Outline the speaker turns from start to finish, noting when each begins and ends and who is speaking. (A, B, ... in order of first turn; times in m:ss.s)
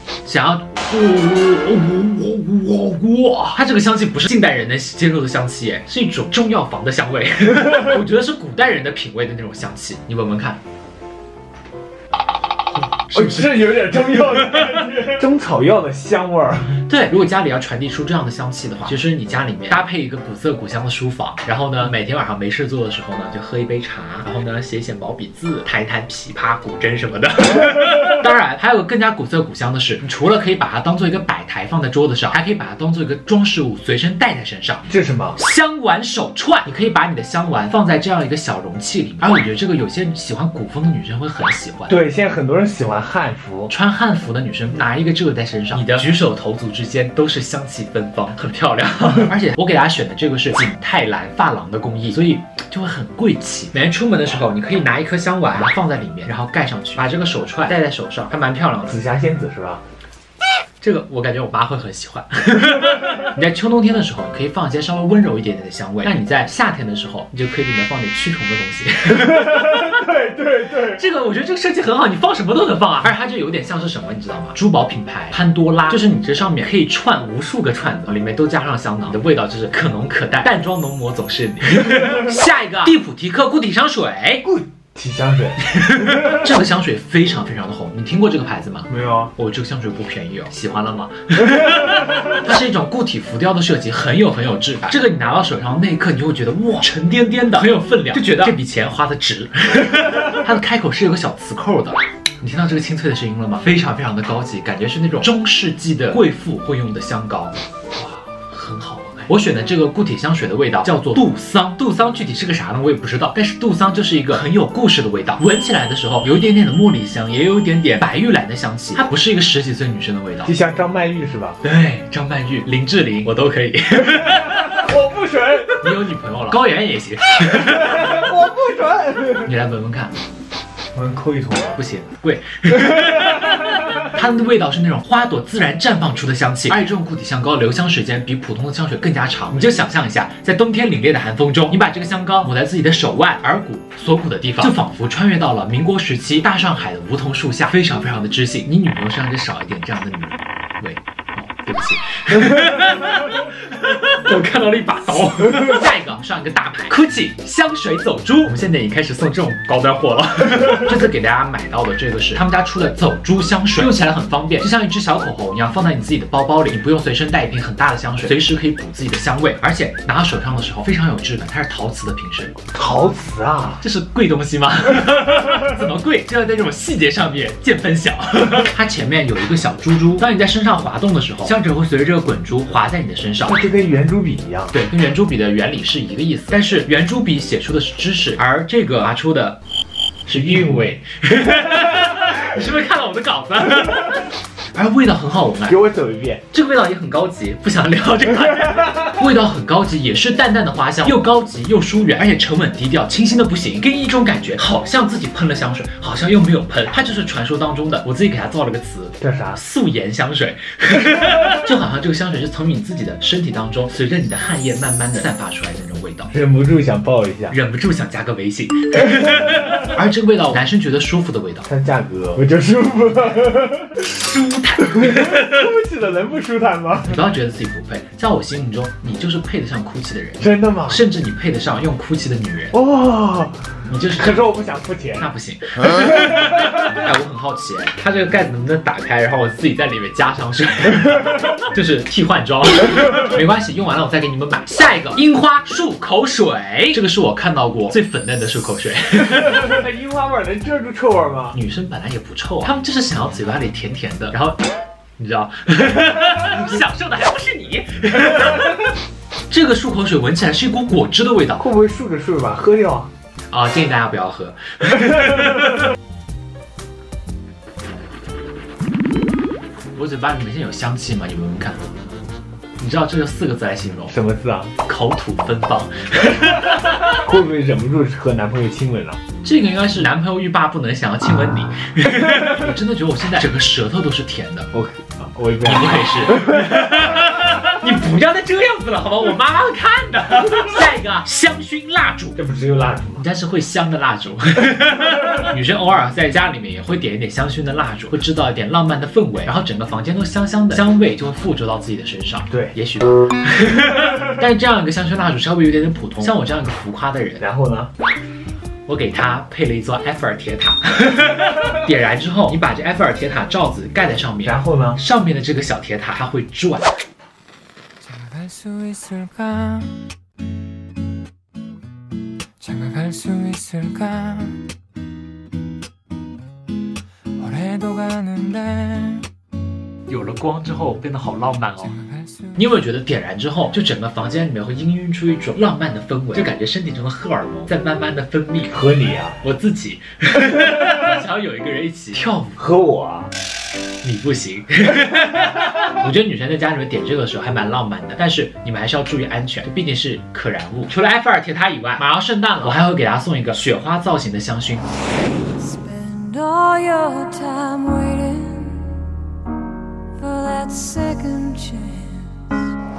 0:00.2-0:10.6 A
0:13.1-0:15.0 A
0:13.1-0:16.8 B
0:16.8-0:42.0 A
0:34.9-0:35.4 B
0:41.9-0:43.7 B
0:43.7-0:59.0 A
0:58.8-0:59.8 B
1:00.8-1:10.0 A
1:09.4-1:11.0 B
1:10.9-1:24.4 A
1:24.4-1:25.6 B
1:25.6-2:00.5 A
1:28.9-1:29.3 B
2:00.4-2:01.6 B
2:01.6-2:04.9 A
2:04.6-2:05.9 B
2:05.7-2:08.3 A
2:07.7-2:09.5 B
2:09.4-2:10.1 A
2:10.9-2:11.8 B
2:11.7-2:52.6 A
2:52.7-2:53.8 B
2:53.8-3:03.6 A
3:03.4-3:04.7 B
3:04.7-3:09.6 A
3:10.2-3:15.8 A
3:15.7-3:16.4 B
3:16.5-3:36.3 A
3:29.2-3:29.6 B
3:36.3-3:37.5 B
3:37.5-3:41.7 A
3:41.6-3:44.0 B
3:44.0-3:45.7 A
3:44.9-3:47.2 B
3:47.0-3:52.8 A
3:50.4-3:51.0 B
3:52.7-3:55.3 B
3:53.9-3:54.6 A
3:55.1-4:09.8 A
4:09.6-4:11.6 B
4:11.5-4:14.6 A
4:15.2-4:18.8 A
4:19.5-4:21.6 A
4:21.6-4:23.1 B
4:23.5-4:25.8 A
4:29.9-4:31.9 A
4:32.8-4:34.1 A
4:34.1-4:34.7 B
4:34.8-4:37.3 A
4:37.0-4:39.2 B
4:39.4-4:44.7 A
4:44.7-4:46.8 B
4:45.6-4:52.4 A
4:52.4-4:53.2 B
4:53.2-5:07.4 A
5:07.4-5:07.9 B
5:08.8-5:17.0 A
5:14.4-5:15.0 B
5:18.2-5:19.9 C
5:22.6-5:24.6 C
5:27.4-5:29.3 C
5:30.1-5:32.0 A
5:32.5-5:38.8 A
5:38.7-5:39.4 B
5:39.4-5:42.6 A
5:42.6-5:43.3 B
5:44.0-5:54.8 A
5:55.6-5:59.0 C
6:00.2-6:02.3 C